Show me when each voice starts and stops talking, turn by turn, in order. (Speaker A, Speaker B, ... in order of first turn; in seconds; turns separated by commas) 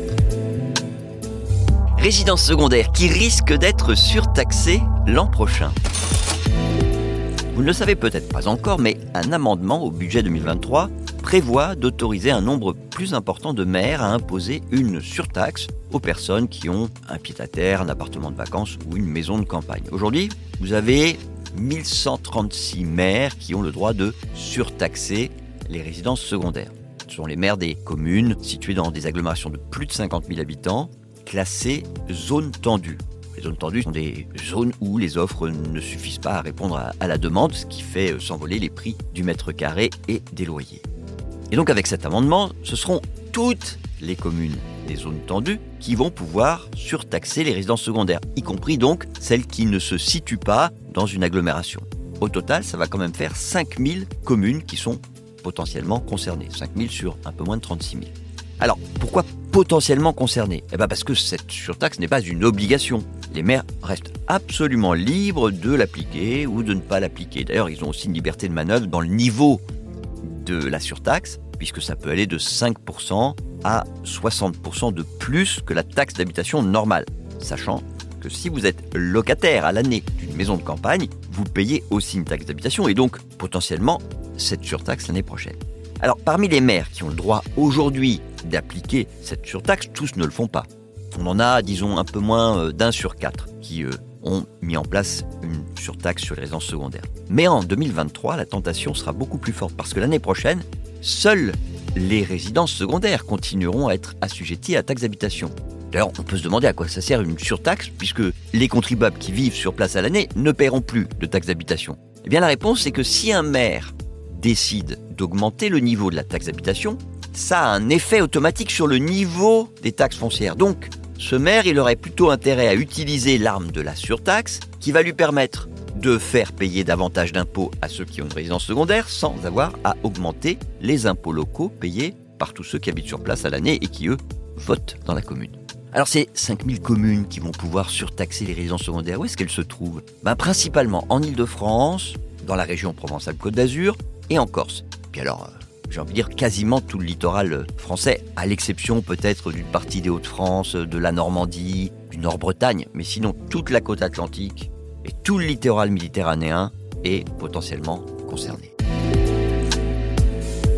Speaker A: 2.0-5.8, Speaker A: 7.5-40.8, Speaker A: 41.5-69.6, Speaker A: 70.2-158.7